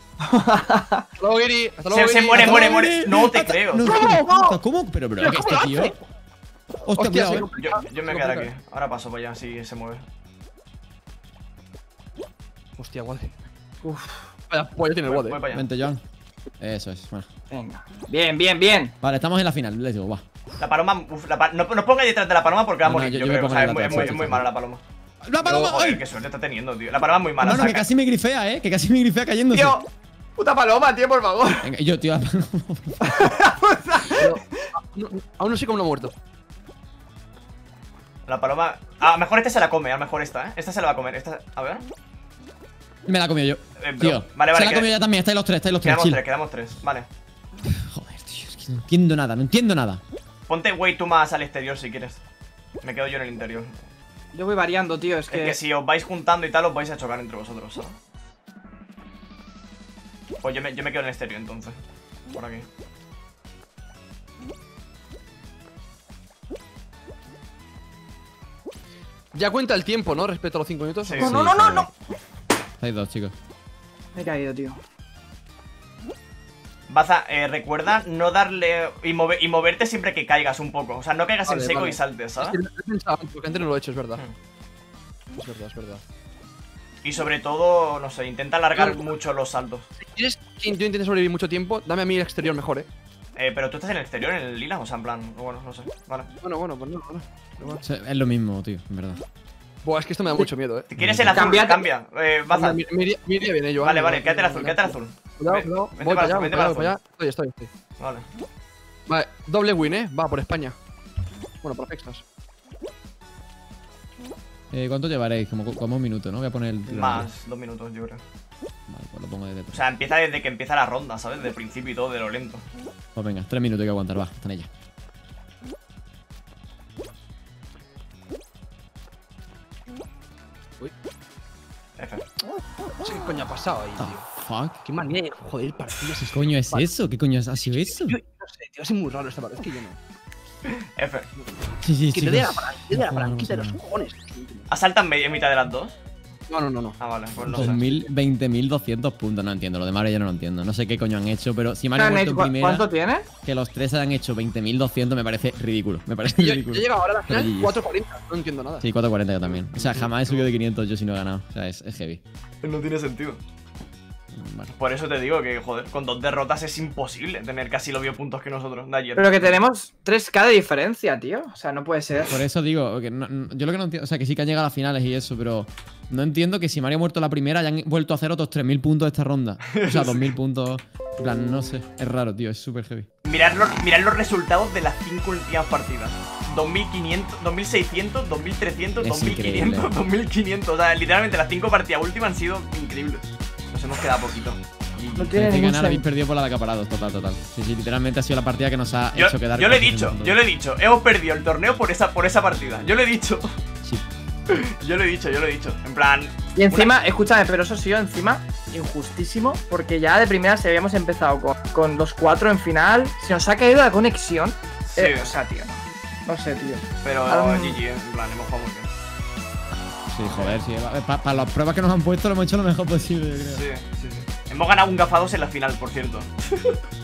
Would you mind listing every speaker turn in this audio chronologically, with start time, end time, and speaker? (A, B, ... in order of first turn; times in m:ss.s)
0:00.2-0:01.0 A
0:01.2-0:02.7 B
0:01.9-0:03.9 C
0:02.3-0:06.0 D
0:03.8-0:04.6 A
0:03.9-0:04.3 B
0:05.2-0:05.8 B
0:05.2-0:05.9 A
0:06.8-0:07.5 D
0:06.9-0:08.5 B
0:07.6-0:10.0 C
0:12.8-0:13.3 B
0:13.8-0:14.2 A
0:14.5-0:15.4 B
0:15.1-0:15.7 C
0:15.5-0:16.0 D
0:16.6-0:17.3 D
0:17.5-0:18.9 A
0:19.0-0:20.2 D
0:20.6-0:24.8 C
0:22.8-0:24.5 D
0:25.2-0:26.0 D
0:25.4-0:27.8 C
0:27.4-0:29.8 D
0:29.5-0:29.8 A
0:30.4-0:31.7 A
0:31.6-0:33.3 D
0:33.0-0:34.4 A
0:34.1-0:36.1 B
0:38.3-0:41.8 C
0:43.0-0:46.2 D
0:43.8-0:44.9 C
0:45.8-0:47.1 C
0:47.6-0:50.0 D
0:50.5-0:52.2 C
0:52.8-0:53.7 C
0:54.3-0:55.6 A
0:55.3-0:58.0 C
1:00.4-1:01.8 C
1:02.3-1:02.7 C
1:09.3-1:11.2 B
1:11.0-1:11.4 C
1:11.2-1:11.9 A
1:11.2-1:11.9 D
1:12.8-1:13.3 D
1:14.1-1:14.8 A
1:16.9-1:22.6 C
1:21.5-1:24.2 B
1:25.3-1:26.0 B
1:27.0-1:29.8 C
1:28.7-1:29.0 B
1:30.0-1:32.9 B
1:33.4-1:36.3 C
1:36.4-1:37.8 B
1:37.8-1:39.2 D
1:39.8-1:40.9 B
1:40.9-1:42.8 C
1:41.0-1:41.5 D
1:41.3-1:41.8 A
1:42.5-1:47.7 B
1:43.8-1:46.9 C
1:48.0-1:48.3 C
1:49.1-1:50.8 B
1:51.6-1:52.2 B
1:54.7-1:57.3 D
1:56.9-1:58.2 C
1:58.9-1:59.8 D
1:59.7-2:02.6 C
2:03.1-2:04.7 D
2:12.0-2:12.2 C
2:13.0-2:14.2 B
2:14.0-2:14.8 D
2:14.8-2:16.9 B
2:16.3-2:18.2 D
2:17.7-2:20.0 B
2:20.7-2:21.3 C
2:21.8-2:23.8 D
2:22.1-2:24.7 B
2:24.7-2:26.0 C
2:26.5-2:28.1 B
2:27.0-2:27.8 C
2:27.4-2:32.9 D
2:32.0-2:33.3 A
2:33.4-2:37.8 D
2:36.4-2:38.9 B
2:38.8-2:42.2 D
2:39.7-2:40.4 C
2:42.6-2:43.4 C
2:44.3-2:44.7 D
2:44.7-2:49.6 C
2:49.2-2:52.4 A
2:52.3-3:03.1 D
2:59.7-3:00.3 C
3:03.2-3:15.2 C
3:09.0-3:09.9 D
3:15.2-3:16.0 A
3:15.2-3:20.4 D
3:19.1-3:23.5 C
3:24.5-3:26.9 C
3:26.6-3:37.8 A
3:34.9-3:35.3 C
3:37.0-3:38.9 C
3:40.1-3:43.6 D
3:40.2-3:40.6 C
3:43.5-3:46.8 C